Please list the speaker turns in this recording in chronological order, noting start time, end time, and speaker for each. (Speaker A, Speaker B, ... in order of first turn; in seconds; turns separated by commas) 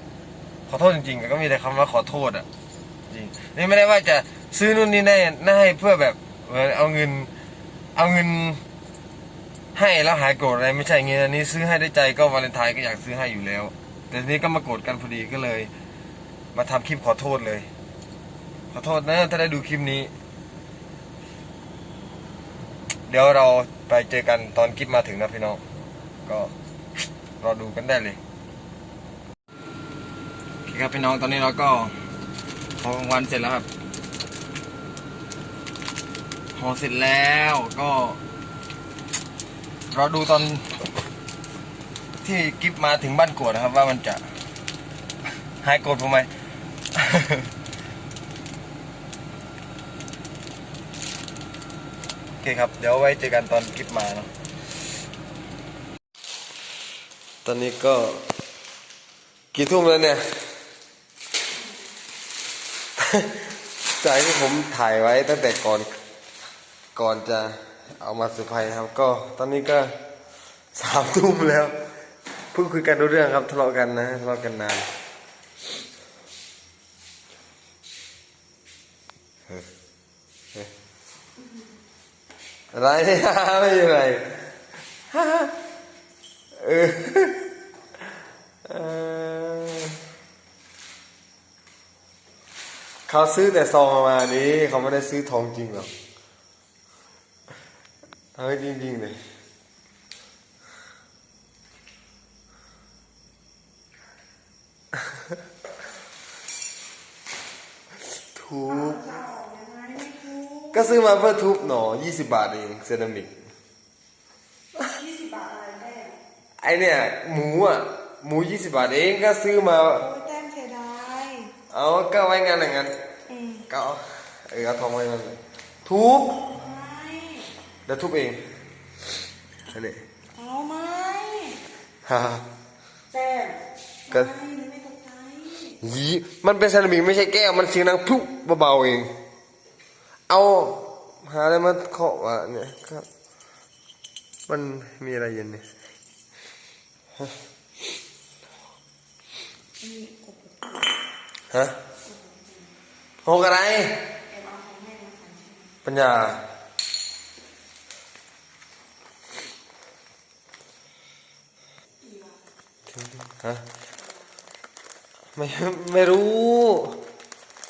Speaker A: 0.7-2.5, Speaker A: 3.1-7.3, Speaker A: 7.9-8.6, Speaker A: 9.7-15.7, Speaker A: 16.5-17.7, Speaker A: 18.7-20.1, Speaker A: 23.1-25.6, Speaker A: 26.2-26.5, Speaker A: 27.4-28.2, Speaker A: 30.6-31.9, Speaker A: 32.8-33.7, Speaker A: 36.5-38.2, Speaker A: 39.9-40.6, Speaker A: 42.2-44.2, Speaker A: 45.6-46.3, Speaker A: 46.9-47.5, Speaker A: 52.4-54.3, Speaker A: 57.4-58.2, Speaker A: 59.5-60.2, Speaker A: 63.0-65.9, Speaker A: 66.9-69.9, Speaker A: 70.7-71.8, Speaker A: 72.5-74.9, Speaker A: 82.7-84.4, Speaker A: 85.1-85.5, Speaker A: 86.5-87.5, Speaker A: 88.6-90.0, Speaker A: 93.1-95.9, Speaker A: 98.3-99.2, Speaker A: 108.2-109.1, Speaker B: 108.6-111.0, Speaker A: 110.7-113.3, Speaker B: 114.8-116.2, Speaker A: 116.6-120.1, Speaker B: 119.9-121.5, Speaker A: 121.7-123.0, Speaker B: 123.3-123.7, Speaker A: 123.7-126.5, Speaker B: 126.5-127.5, Speaker A: 127.9-128.5, Speaker A: 129.7-130.0, Speaker B: 130.3-131.6, Speaker A: 132.0-132.5, Speaker B: 133.1-135.8, Speaker A: 135.8-139.1, Speaker A: 140.3-143.1, Speaker A: 144.5-145.7, Speaker B: 149.8-151.0, Speaker A: 151.5-151.8, Speaker B: 152.0-152.8, Speaker A: 153.2-154.1, Speaker B: 154.3-155.8, Speaker A: 155.8-156.4, Speaker B: 162.0-162.4, Speaker A: 162.9-163.7, Speaker A: 165.3-167.0